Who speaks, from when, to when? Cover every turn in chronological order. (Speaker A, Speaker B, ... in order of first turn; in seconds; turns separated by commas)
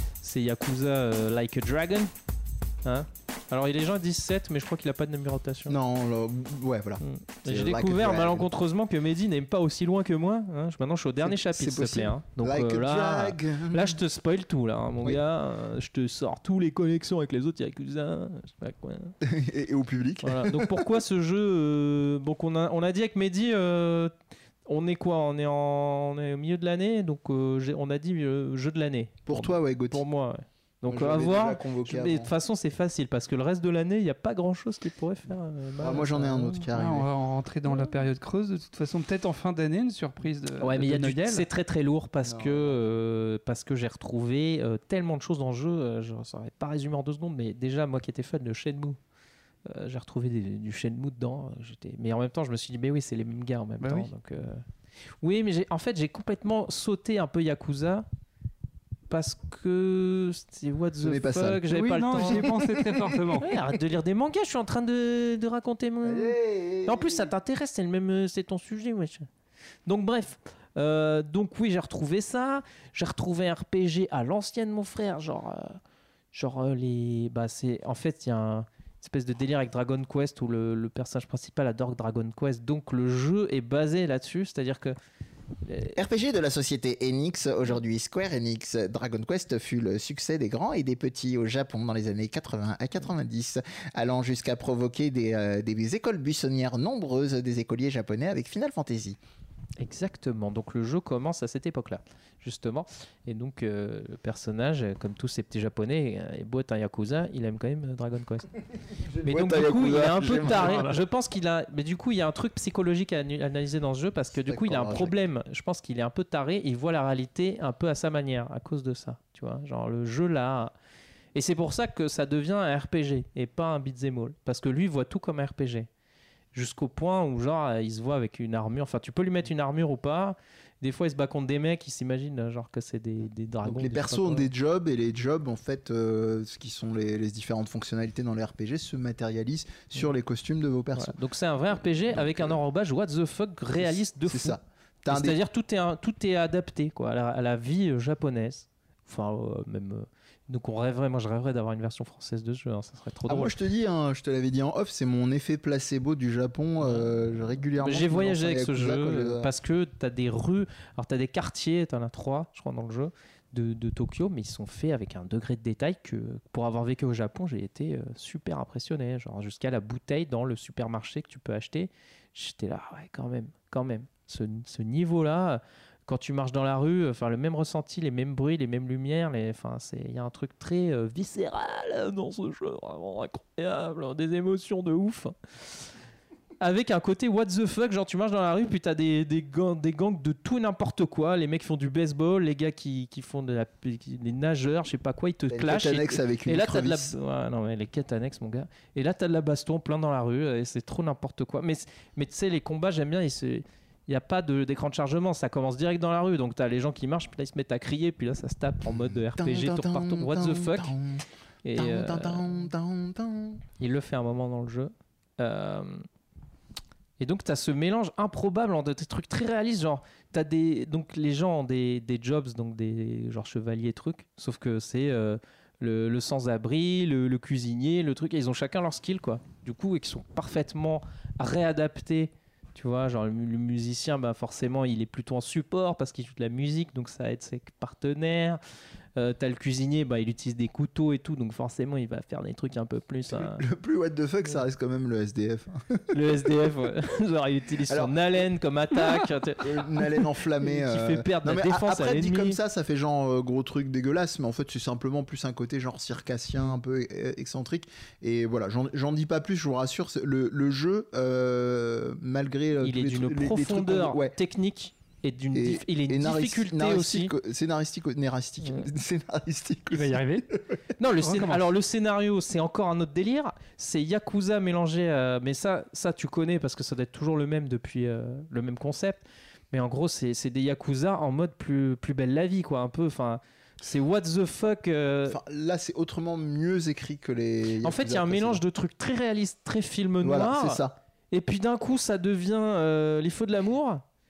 Speaker A: 0.2-2.1, Speaker A: 2.8-5.8, Speaker B: 5.7-8.5, Speaker A: 7.0-19.1, Speaker B: 11.2-14.0, Speaker B: 19.2-20.8, Speaker A: 20.2-24.1, Speaker A: 24.6-36.6, Speaker B: 29.2-30.0, Speaker B: 30.9-32.3, Speaker B: 35.8-37.1, Speaker C: 36.7-41.5, Speaker A: 40.6-49.0, Speaker B: 42.2-42.8, Speaker A: 49.6-54.6, Speaker C: 53.8-54.1, Speaker A: 55.2-58.0, Speaker A: 59.1-62.6, Speaker B: 61.0-63.6, Speaker C: 61.7-63.5, Speaker A: 63.3-69.3, Speaker B: 66.0-67.3, Speaker A: 69.8-75.8, Speaker A: 76.3-85.0, Speaker A: 85.6-86.0, Speaker B: 86.0-99.2, Speaker A: 99.8-108.5, Speaker B: 108.9-111.0, Speaker A: 109.2-120.7, Speaker B: 114.5-115.1, Speaker A: 121.3-125.9, Speaker A: 126.5-134.5, Speaker B: 133.6-141.2, Speaker A: 140.9-153.5, Speaker B: 143.9-145.4, Speaker B: 153.3-159.5, Speaker A: 156.8-157.1, Speaker A: 157.8-185.9, Speaker A: 186.6-210.9, Speaker B: 195.5-197.2, Speaker B: 208.8-211.2, Speaker A: 211.6-212.6, Speaker B: 211.7-213.6, Speaker A: 213.8-216.1, Speaker A: 217.2-238.6, Speaker A: 239.2-243.6, Speaker B: 243.3-246.1, Speaker A: 246.1-252.6, Speaker B: 247.9-248.2, Speaker B: 249.0-264.4, Speaker A: 262.8-267.3, Speaker B: 265.5-270.6, Speaker A: 268.6-268.9, Speaker C: 269.9-270.5, Speaker A: 271.0-285.4, Speaker C: 271.2-271.6, Speaker B: 285.3-288.6, Speaker A: 287.8-294.1, Speaker B: 290.2-291.0